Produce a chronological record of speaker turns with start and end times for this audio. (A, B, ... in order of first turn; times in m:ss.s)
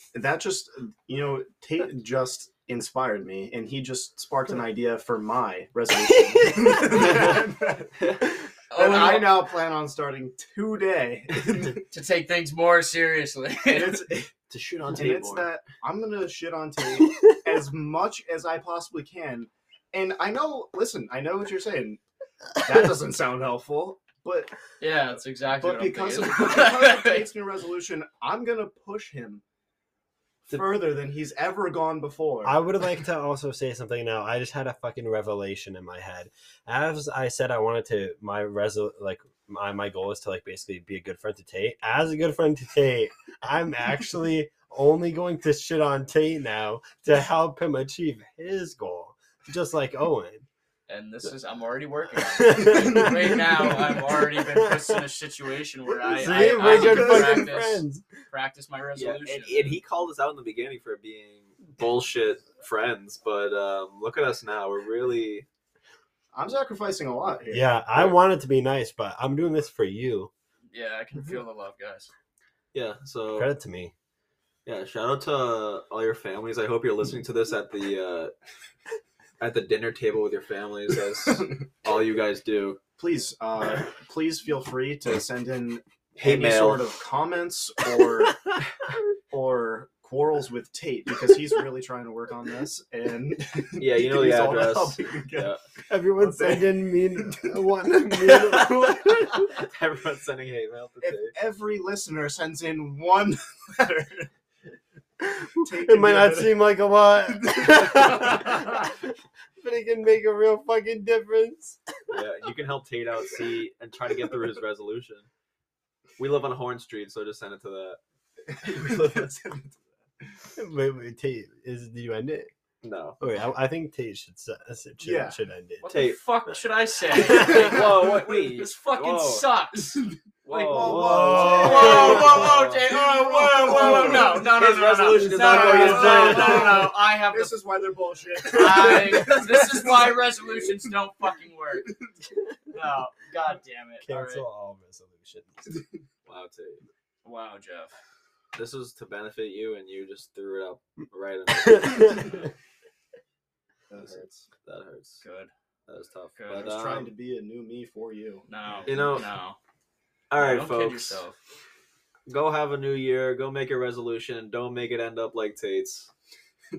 0:00.1-0:11.8 A
0:06.5-0:07.1 B
0:08.7-0:09.5 B
0:11.9-0:14.0 B
0:13.7-0:14.3 A
0:14.5-0:15.5 C
0:14.9-0:22.0 A
0:22.6-0:24.5 A
0:24.8-0:27.3 B
0:25.6-0:29.4 A
0:30.5-0:32.6 A
0:32.4-0:50.5 D
0:50.9-0:59.8 B
0:52.4-0:54.9 D
0:56.1-0:58.1 D
0:56.2-0:57.5 A
0:59.0-1:05.5 C
1:06.3-1:07.6 A
1:07.5-1:10.3 D
1:10.7-1:12.1 B
1:12.7-1:13.5 C
1:13.4-1:13.9 D
1:14.6-1:18.3 C
1:19.4-1:22.8 C
1:23.0-1:28.6 A
1:26.2-1:26.9 C
1:29.3-1:37.6 A
1:33.8-1:35.6 C
1:35.9-1:39.5 D
1:38.2-1:41.3 C
1:41.0-1:44.3 A
1:45.2-1:49.1 D
1:45.6-1:46.8 A
1:47.4-1:48.5 A
1:49.6-1:51.8 D
1:52.1-1:55.3 C
1:56.2-1:58.0 C
1:58.5-1:59.8 A
1:58.8-1:59.2 C
2:00.6-2:02.5 D
2:02.8-2:03.2 C
2:03.2-2:05.9 D
2:05.0-2:05.4 A
2:05.8-2:10.1 B
2:05.9-2:06.2 C
2:07.1-2:07.7 D
2:07.4-2:09.5 C
2:10.4-2:12.8 C
2:10.5-2:14.6 A
2:10.7-2:11.7 D
2:11.1-2:17.6 B
2:13.9-2:16.9 C
2:15.1-2:16.4 D
2:15.4-2:20.2 A
2:18.5-2:21.9 B
2:22.7-2:24.4 B
2:24.0-2:25.7 D
2:26.3-2:26.8 C
2:27.2-2:28.0 B
2:28.6-2:32.5 C
2:31.6-2:32.4 D
2:33.9-2:34.5 A
2:34.0-2:35.2 C
2:35.2-2:35.5 B
2:35.9-2:37.1 C
2:36.4-2:36.9 B
2:36.6-2:38.5 A
2:38.5-2:39.6 B
2:38.8-2:39.3 C
2:40.3-2:41.2 C
2:40.4-2:41.4 B
2:42.3-2:46.1 C